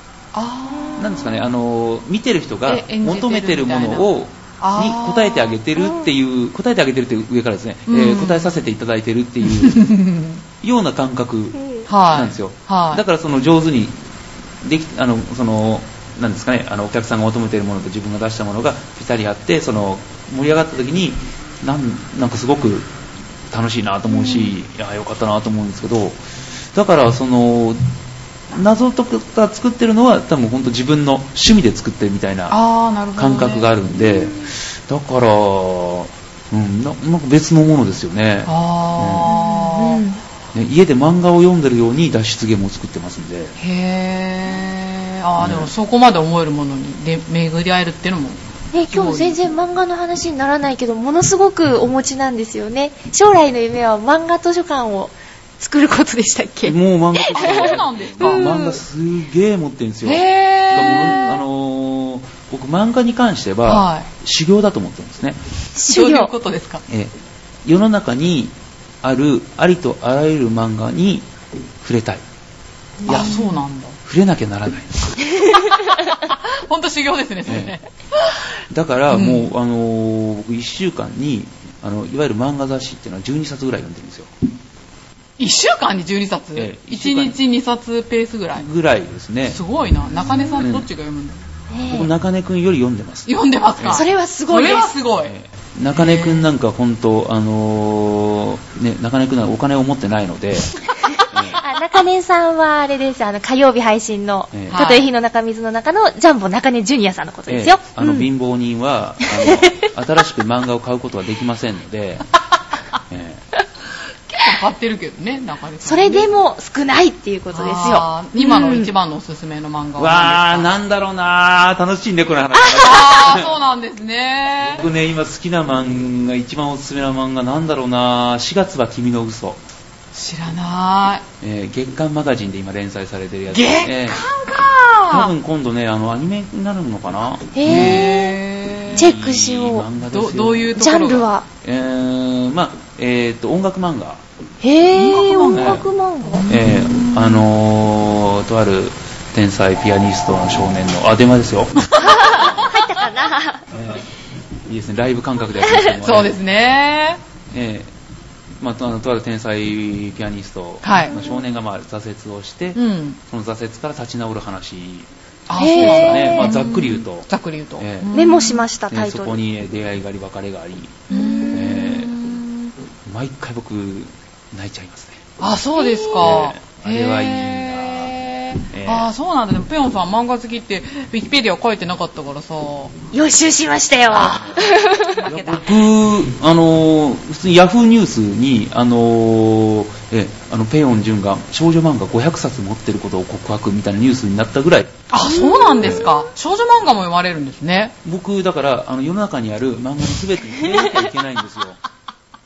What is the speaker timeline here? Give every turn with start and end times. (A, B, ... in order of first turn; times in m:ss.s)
0:00.3-0:01.3 A
0:00.7-0:01.1 B
0:01.0-0:09.9 C
0:02.7-0:04.1 A
0:04.6-0:05.6 A
0:05.8-0:06.1 B
0:07.9-0:08.6 A
0:09.5-0:10.4 A
0:10.6-0:14.0 C
0:11.6-0:11.9 B
0:11.9-0:13.0 A
0:14.6-0:22.9 C
0:23.5-0:26.2 C
0:24.2-0:24.5 B
0:26.7-0:27.8 C
0:28.5-0:32.6 C
0:32.5-0:33.7 A
0:33.2-0:39.3 C
0:34.2-0:34.4 B
0:38.5-0:40.0 A
0:39.3-0:40.2 B
0:40.5-0:43.6 C
0:43.6-0:49.4 A
0:45.4-0:45.7 C
0:48.7-0:58.8 B
0:56.6-1:05.4 C
0:57.3-0:58.5 A
1:00.0-1:01.2 A
1:00.8-1:01.3 B
1:03.7-1:04.1 A
1:05.8-1:06.3 B
1:05.9-1:06.8 A
1:06.9-1:11.3 C
1:11.8-1:12.2 C
1:13.0-1:13.4 B
1:13.0-1:13.4 C
1:13.0-1:14.0 A
1:14.0-1:15.3 C
1:16.1-1:18.4 A
1:17.4-1:17.8 C
1:18.7-1:24.3 C
1:19.1-1:19.5 A
1:25.4-1:28.7 A
1:26.6-1:27.4 C
1:28.6-1:29.6 C
1:29.4-1:31.4 A
1:30.6-1:30.9 C
1:31.7-1:32.1 B
1:31.9-1:34.0 C
1:33.3-1:35.3 A
1:33.9-1:35.0 B
1:35.2-1:41.6 C
1:35.9-1:36.5 A
1:41.0-1:48.3 B
1:44.5-1:44.8 C
1:44.7-1:45.1 A
1:47.5-1:52.3 C
1:49.2-1:49.9 B
1:53.1-1:53.4 C
1:54.3-1:56.3 A
1:55.8-1:58.9 B
1:57.5-2:00.7 A
2:00.0-2:03.6 C
2:02.7-2:04.9 A
2:04.6-2:09.6 C
2:10.1-2:11.2 A
2:11.4-2:14.2 C
2:13.5-2:15.3 A
2:15.1-2:18.1 C
2:17.5-2:18.4 B
2:17.6-2:19.1 A
2:18.9-2:20.7 C
2:19.0-2:19.9 B
2:20.1-2:21.3 A
2:20.8-2:21.5 B
2:21.6-2:24.2 C
2:24.6-2:26.5 B
2:24.9-2:27.4 A
2:25.5-2:25.9 C
2:26.5-2:31.9 C
2:32.0-2:33.6 B
2:33.7-2:34.1 C
2:34.7-2:36.4 C
2:36.0-2:37.2 A
2:37.5-2:37.9 C
2:38.6-2:48.1 C
2:40.8-2:41.2 A
2:42.8-2:43.2 A
2:45.5-2:48.6 A
2:45.6-2:46.6 B
2:48.1-2:49.4 B
2:48.9-2:52.2 C
2:51.1-2:52.8 A
2:51.1-2:51.8 B
2:53.1-2:55.2 C
2:55.4-3:02.9 A
2:55.8-2:56.3 B
2:56.2-2:58.2 C
2:58.7-2:59.1 C
3:03.1-3:05.3 B
3:04.1-3:05.6 A
3:04.2-3:15.0 C
3:15.1-3:18.0 A
3:15.4-3:16.1 B
3:18.0-3:21.8 C